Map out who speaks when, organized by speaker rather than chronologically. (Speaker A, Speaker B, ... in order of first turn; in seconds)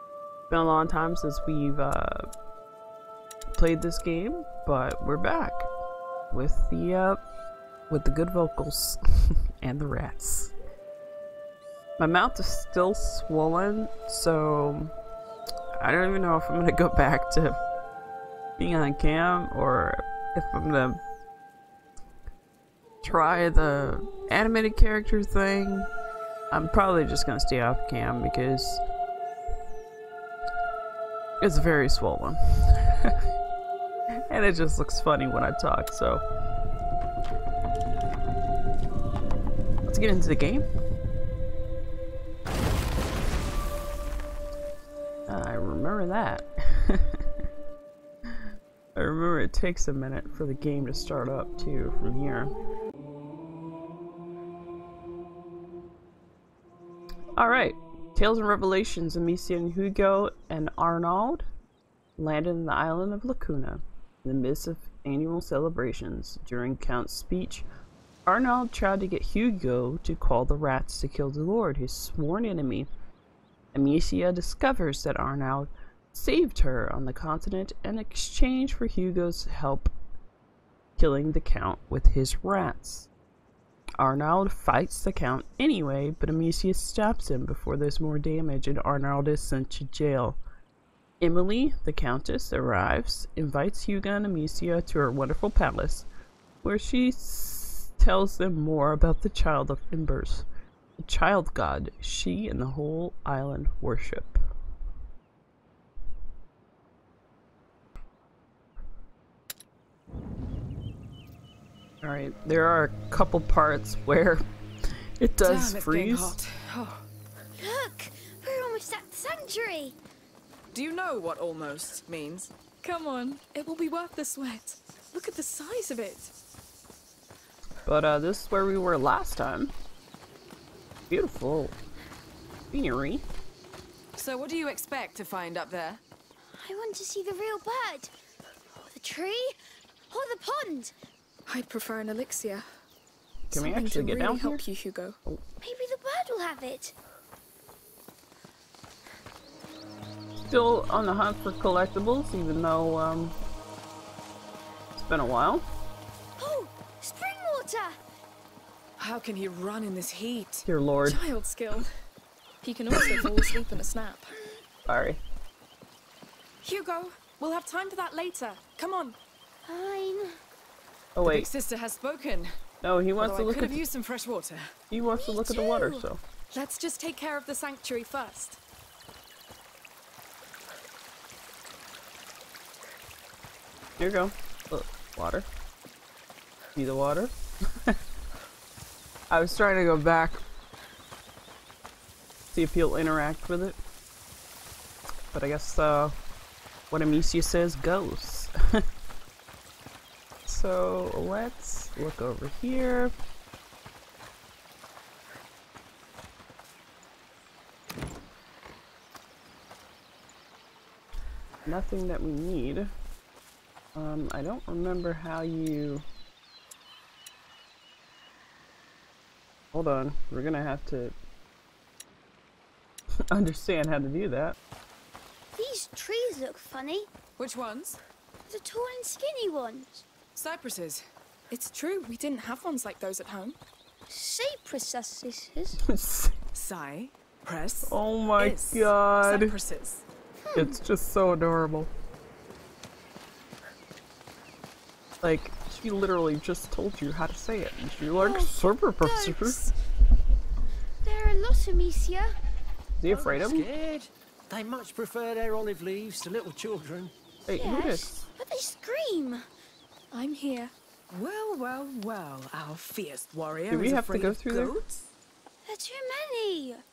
Speaker A: 0.5-2.3, 3.6-5.7, 6.3-7.2, 7.9-10.5, 12.0-14.9, 15.8-17.6, 18.6-21.0, 23.0-25.9, 26.5-28.8, 31.4-33.2, 34.3-36.2, 39.9-40.7, 45.3-47.2, 49.0-52.5, 57.4-61.5, 62.2-67.7, 68.3-72.9, 73.7-79.9, 81.0-83.1, 84.0-90.4, 91.2-96.1, 96.6-100.5, 101.0-104.4, 112.0-114.4, 115.2-116.4, 127.8-129.7, 131.1-131.8, 132.7-133.2, 143.5-144.6, 150.4-153.4, 155.0-155.7, 160.7-161.2, 164.9-165.2, 171.2-171.5, 172.8-173.8, 174.9-176.2, 184.0-185.5, 186.8-187.3, 189.3-190.4, 192.5-193.8, 195.3-196.2, 196.9-198.8, 200.5-203.1, 211.7-212.9, 213.9-216.1, 219.7-221.2, 223.3-224.6, 235.8-236.3, 237.9-239.6, 240.6-241.9, 245.2-249.6, 253.0-253.7, 257.5-258.3, 263.7-264.8
Speaker B: 115.4-117.1, 120.7-123.1, 134.2-136.0, 159.0-160.7, 171.2-172.5, 173.2-174.8, 227.4-228.0, 230.3-231.0, 236.5-240.0, 261.1-265.1
Speaker C: 117.6-120.0, 136.5-138.1, 138.7-139.6, 140.1-140.9, 145.6-146.9, 156.4-158.0, 169.7-170.4, 175.1-176.1, 225.6-227.1, 228.5-230.1, 234.1-235.8, 240.4-240.8, 248.2-249.7, 251.0-252.4, 257.6-259.5, 265.7-266.8
Speaker D: 122.9-126.3, 141.5-142.7, 143.5-145.2, 161.1-161.9, 162.6-164.3, 166.6-169.2, 176.5-178.6, 231.5-233.6, 260.1-260.7
Speaker E: 253.1-257.1